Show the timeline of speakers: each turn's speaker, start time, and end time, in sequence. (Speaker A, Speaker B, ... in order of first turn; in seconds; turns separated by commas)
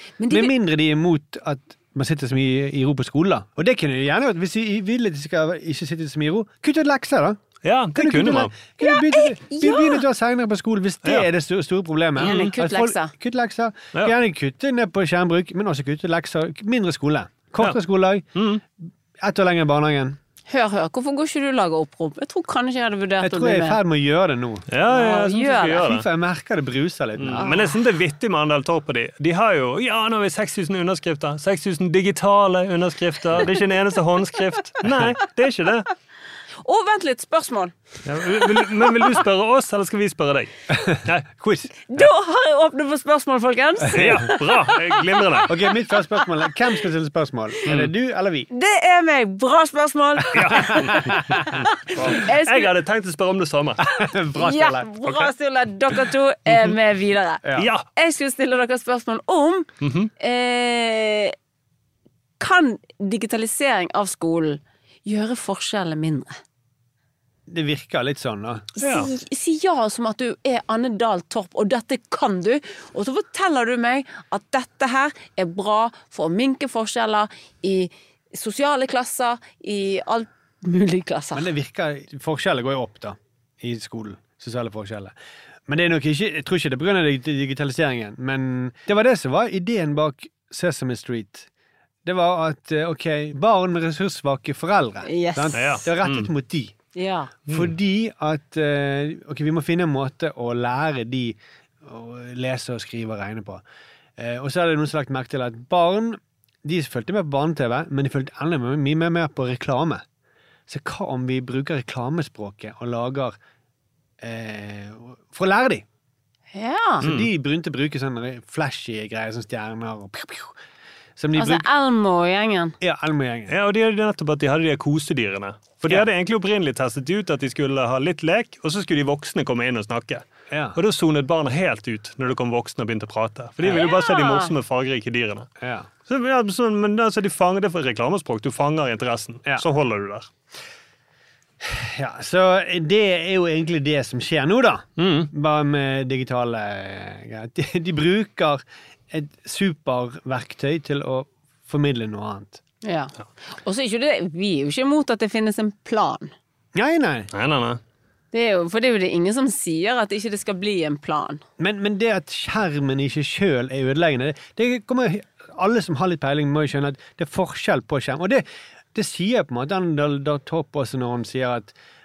Speaker A: 0.2-0.5, Speaker B: 0.3-7.4, Speaker C: 7.7-8.5, Speaker B: 7.9-18.3, Speaker A: 8.8-10.0, Speaker A: 12.2-13.1, Speaker C: 12.2-12.5, Speaker C: 18.4-18.6, Speaker B: 19.2-20.2, Speaker A: 20.5-23.8, Speaker B: 23.2-24.7, Speaker C: 24.7-26.1, Speaker A: 24.9-25.9, Speaker B: 25.8-27.5, Speaker C: 27.2-35.9, Speaker A: 27.3-27.7, Speaker A: 36.6-37.7, Speaker C: 38.0-40.5, Speaker B: 40.7-41.7, Speaker A: 41.9-44.7, Speaker B: 43.9-44.2, Speaker C: 44.0-45.5, Speaker B: 45.5-48.5, Speaker C: 47.7-47.9, Speaker A: 48.5-52.7, Speaker C: 50.3-51.2, Speaker B: 50.5-51.2, Speaker C: 51.9-53.8, Speaker B: 53.9-54.9, Speaker A: 54.4-57.4, Speaker B: 57.5-57.7, Speaker C: 57.6-57.9, Speaker A: 57.9-61.3, Speaker C: 59.8-60.1, Speaker A: 62.4-66.4, Speaker B: 67.5-68.7, Speaker A: 68.8-81.5, Speaker C: 68.8-69.1, Speaker B: 81.3-85.2, Speaker B: 85.7-91.5, Speaker B: 92.0-96.7, Speaker A: 95.0-95.6, Speaker C: 95.5-96.3, Speaker A: 97.0-97.3, Speaker B: 97.5-103.6, Speaker B: 104.2-110.0, Speaker B: 110.7-113.4, Speaker B: 114.2-115.8, Speaker A: 116.5-117.0, Speaker B: 117.0-120.6, Speaker C: 117.0-117.3, Speaker B: 121.2-121.7, Speaker A: 121.3-122.8, Speaker B: 122.8-123.5, Speaker C: 123.5-135.5, Speaker B: 125.8-126.1, Speaker B: 130.5-130.8, Speaker A: 133.7-134.5, Speaker B: 135.6-135.9, Speaker C: 136.1-140.3, Speaker B: 141.6-152.6, Speaker C: 145.0-145.3, Speaker A: 152.8-156.3, Speaker B: 156.7-157.3, Speaker C: 157.3-157.8, Speaker A: 158.3-161.4, Speaker B: 161.6-171.8